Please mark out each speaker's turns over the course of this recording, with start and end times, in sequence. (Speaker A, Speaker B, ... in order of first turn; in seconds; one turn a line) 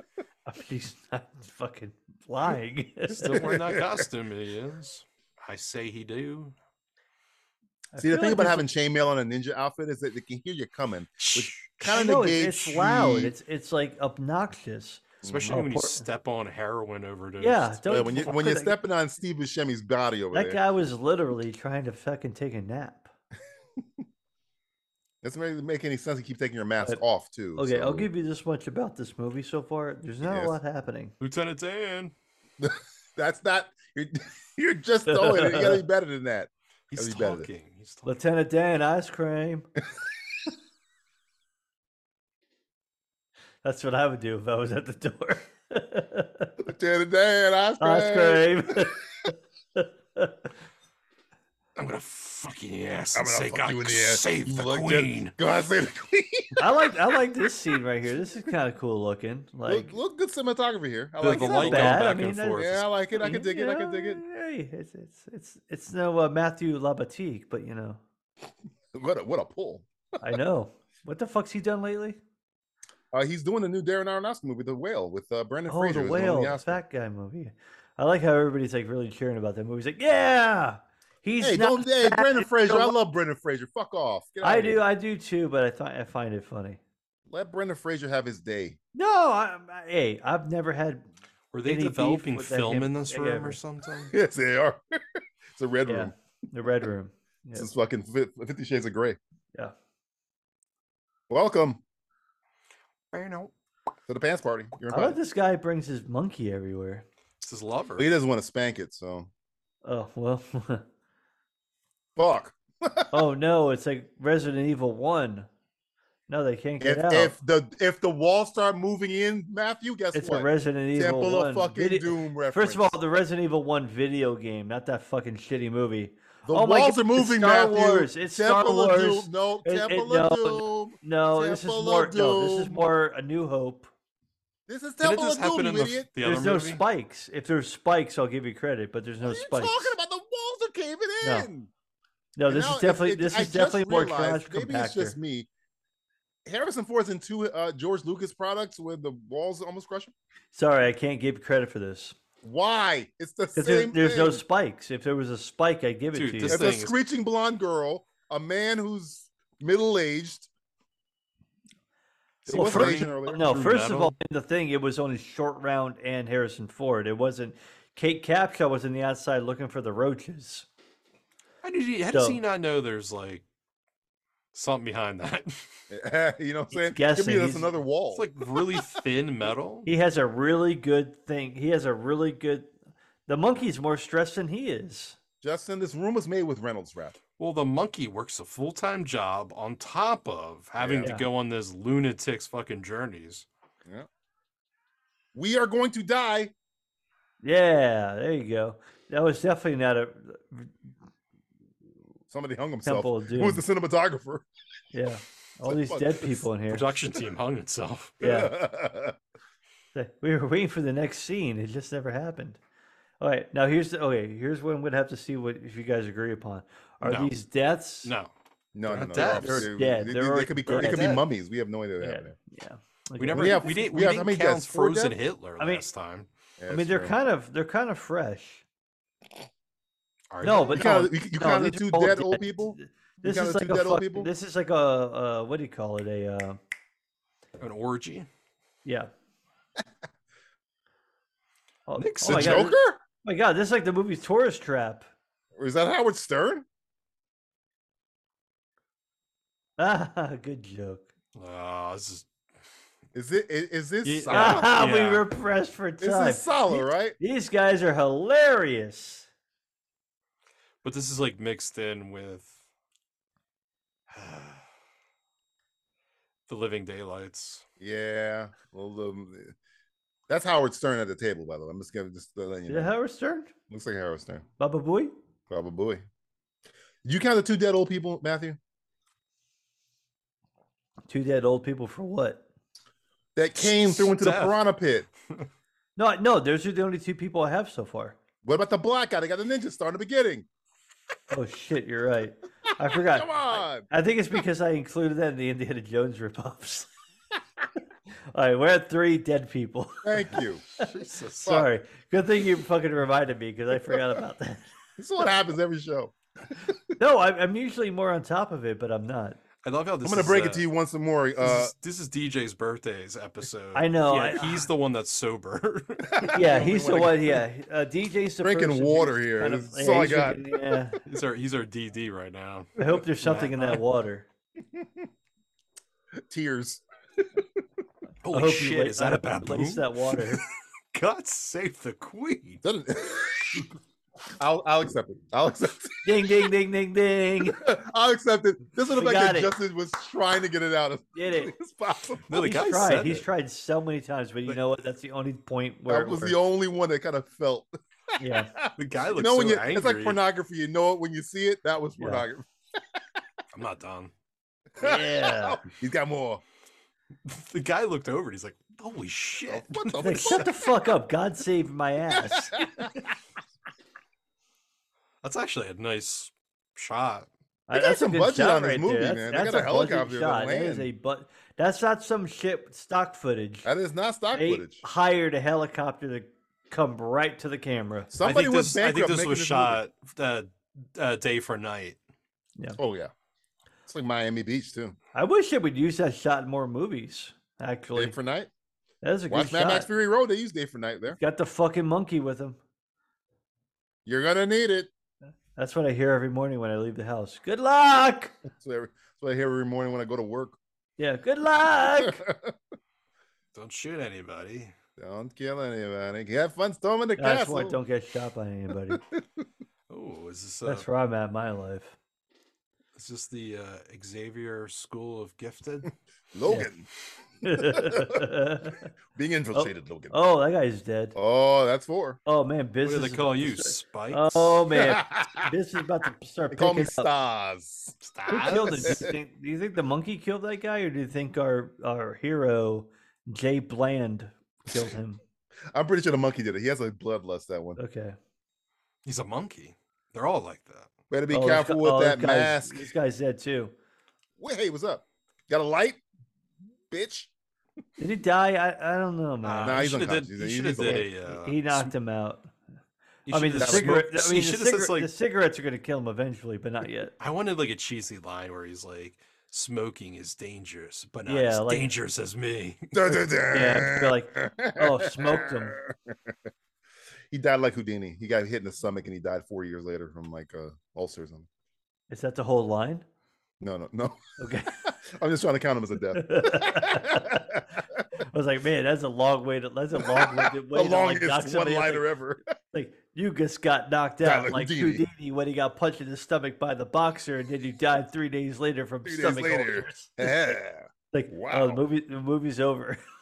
Speaker A: 0.5-3.4
Speaker B: 3.1-6.5
Speaker C: 3.3-4.0
Speaker A: 7.9-8.7
Speaker C: 8.0-13.3
Speaker B: 11.2-11.9
Speaker A: 11.9-16.0
Speaker C: 15.2-15.6
Speaker B: 15.2-18.3
Speaker A: 17.4-18.7
Speaker C: 17.9-20.6
Speaker A: 20.3-23.1
Speaker C: 25.2-28.1
Speaker A: 27.6-31.1
Speaker C: 30.2-30.6
Speaker B: 31.2-32.1
Speaker C: 32.6-37.5
Speaker A: 35.1-35.8
Speaker B: 36.9-38.1
Speaker A: 38.0-39.7
Speaker A: 43.6-46.5
Speaker C: 46.6-48.9
Speaker A: 47.8-50.4
Speaker B: 51.8-55.3
Speaker C: 53.1-56.9
Speaker A: 56.6-60.0
Speaker C: 59.6-64.2
Speaker B: 61.2-62.8
Speaker A: 61.3-68.0
Speaker C: 68.9-70.3
Speaker A: 70.2-72.2
Speaker C: 73.1-76.8
Speaker A: 75.7-82.9
Speaker C: 81.4-84.8
Speaker A: 84.4-86.8
Speaker C: 87.3-88.8
Speaker A: 88.9-91.1
Speaker B: 91.5-94.1
Speaker A: 91.6-93.6
Speaker C: 94.1-96.1
Speaker A: 95.8-97.7
Speaker C: 97.5-99.2
Speaker C: 101.3-101.8
Speaker B: 103.1-103.5
Speaker C: 104.1-105.2
Speaker A: 104.9-107.0
Speaker B: 107.4-108.1
Speaker C: 108.0-109.3
Speaker A: 109.8-110.8
Speaker C: 112.2-113.2
Speaker A: 113.1-115.5
Speaker A: 116.3-117.3
Speaker C: 116.8-123.0
Speaker A: 120.1-133.9
Speaker C: 126.4-132.9
Speaker C: 134.7-136.1
Speaker B: 135.0-136.8
Speaker A: 136.2-139.9
Speaker C: 139.2-141.7
Speaker A: 141.2-141.5
Speaker A: 142.3-145.2
Speaker C: 142.4-145.5
Speaker C: 146.4-150.1
Speaker A: 150.5-152.2
Speaker C: 152.4-154.4
Speaker A: 153.5-156.6
Speaker B: 156.1-156.9
Speaker C: 156.4-160.5
Speaker C: 162.4-163.4
Speaker B: 162.5-164.1
Speaker A: 162.5-170.7
Speaker B: 171.6-173.4
Speaker A: 172.1-172.4
Speaker B: 174.5-175.8
Speaker C: 175.9-178.9
Speaker A: 176.7-177.7
Speaker B: 178.1-179.9
Speaker A: 179.8-182.7
Speaker A: 183.3-185.2
Speaker C: 185.4-187.2
Speaker B: 187.4-193.4
Speaker C: 190.8-191.2
Speaker C: 195.3-196.5
Speaker A: 197.4-200.7
Speaker C: 202.3-204.4
Speaker A: 202.8-203.6
Speaker A: 204.9-206.8
Speaker C: 205.6-206.4
Speaker B: 206.7-208.2
Speaker C: 208.2-209.2
Speaker A: 208.2-208.5
Speaker A: 209.9-212.6
Speaker A: 213.2-218.1
Speaker B: 217.0-217.3
Speaker B: 218.0-218.3
Speaker C: 218.7-222.3
Speaker B: 218.8-219.7
Speaker A: 219.2-221.2
Speaker B: 220.8-221.0
Speaker A: 222.0-223.8
Speaker B: 223.2-226.3
Speaker C: 223.3-225.1
Speaker A: 225.6-225.8
Speaker C: 226.6-227.1
Speaker A: 226.7-228.6
Speaker B: 230.3-230.8
Speaker A: 230.4-236.6
Speaker C: 230.5-234.3
Speaker B: 237.6-238.3
Speaker A: 238.8-239.1
Speaker A: 241.9-245.1
Speaker B: 242.0-242.7
Speaker C: 242.2-243.0
Speaker C: 245.5-246.6
Speaker A: 249.8-251.1
Speaker B: 251.3-252.2
Speaker C: 253.1-254.7
Speaker B: 254.0-255.3
Speaker A: 254.3-259.3
Speaker C: 256.0-257.1
Speaker B: 260.8-262.5
Speaker B: 264.1-264.6
Speaker B: 266.5-267.6
Speaker C: 267.8-269.5
Speaker C: 270.3-272.9
Speaker A: 272.7-273.5
Speaker C: 273.7-274.4
Speaker A: 274.6-275.1
Speaker C: 275.5-276.0
Speaker C: 277.0-278.6
Speaker A: 281.1-282.4
Speaker C: 283.4-285.1
Speaker B: 283.6-284.6
Speaker A: 286.0-288.2
Speaker C: 288.4-290.5
Speaker A: 291.3-296.9
Speaker C: 292.9-293.9
Speaker A: 298.3-300.9
Speaker C: 300.0-300.6
Speaker B: 300.8-301.6
Speaker A: 301.4-304.6
Speaker C: 305.0-306.8
Speaker A: 307.0-309.4
Speaker B: 309.6-310.7
Speaker C: 310.0-311.7
Speaker B: 311.4-317.0
Speaker A: 313.7-314.6
Speaker C: 316.1-317.4
Speaker A: 316.3-321.0
Speaker C: 318.4-320.8
Speaker B: 321.1-323.8
Speaker A: 322.8-324.3
Speaker C: 326.3-326.8
Speaker B: 328.2-330.4
Speaker A: 328.3-330.4
Speaker B: 330.9-332.6
Speaker C: 332.6-333.7
Speaker C: 334.4-336.3
Speaker A: 336.0-337.6
Speaker C: 337.4-342.3
Speaker A: 338.9-339.5
Speaker A: 341.1-341.5
Speaker B: 342.3-343.2
Speaker A: 342.3-346.4
Speaker C: 345.9-353.0
Speaker A: 348.2-348.5
Speaker B: 348.8-350.2
Speaker A: 352.0-352.2
Speaker B: 353.5-354.1
Speaker C: 354.8-356.4
Speaker A: 354.8-355.6
Speaker B: 357.2-360.4
Speaker C: 359.5-360.5
Speaker A: 360.0-362.8
Speaker C: 362.1-363.1
Speaker B: 365.2-367.3
Speaker A: 367.7-373.7
Speaker C: 367.7-370.9
Speaker C: 373.6-374.8
Speaker A: 374.3-378.1
Speaker C: 378.1-379.8
Speaker B: 378.2-382.0
Speaker C: 382.8-383.1
Speaker C: 383.9-384.9
Speaker A: 385.1-388.1
Speaker C: 387.9-388.5
Speaker A: 389.0-389.9
Speaker C: 389.3-391.2
Speaker A: 391.1-392.6
Speaker C: 394.1-394.9
Speaker A: 395.6-398.3
Speaker C: 398.5-400.6
Speaker A: 401.0-402.2
Speaker C: 401.7-402.6
Speaker B: 403.5-404.7
Speaker C: 405.0-407.8
Speaker A: 407.2-409.0
Speaker C: 408.9-409.2
Speaker B: 409.9-410.9
Speaker A: 410.6-411.9
Speaker B: 412.9-415.9
Speaker C: 416.3-416.9
Speaker A: 417.4-418.9
Speaker C: 417.5-418.3
Speaker C: 419.1-420.2
Speaker A: 419.5-421.1
Speaker C: 421.1-422.2
Speaker A: 422.2-427.1
Speaker B: 422.8-424.6
Speaker C: 424.7-425.5
Speaker C: 426.5-429.1
Speaker B: 428.0-429.0
Speaker A: 428.3-435.2
Speaker C: 435.7-437.8
Speaker A: 437.8-438.2
Speaker B: 439.0-440.9
Speaker C: 441.1-442.9
Speaker A: 441.3-443.7
Speaker C: 444.4-446.0
Speaker C: 446.9-447.3
Speaker A: 448.0-450.0
Speaker B: 449.4-451.9
Speaker C: 449.6-451.1
Speaker A: 450.8-452.5
Speaker B: 453.2-455.1
Speaker A: 453.3-457.1
Speaker C: 453.6-454.0
Speaker B: 457.2-463.1
Speaker A: 461.2-461.9
Speaker C: 462.9-466.3
Speaker A: 463.5-465.8
Speaker C: 467.3-471.5
Speaker A: 472.1-473.0
Speaker C: 473.6-474.2
Speaker A: 474.4-474.8
Speaker C: 474.8-477.6
Speaker A: 476.1-477.6
Speaker A: 478.2-482.1
Speaker C: 480.0-482.5
Speaker A: 482.7-490.5
Speaker C: 484.2-485.1
Speaker C: 489.0-491.8
Speaker A: 491.1-493.0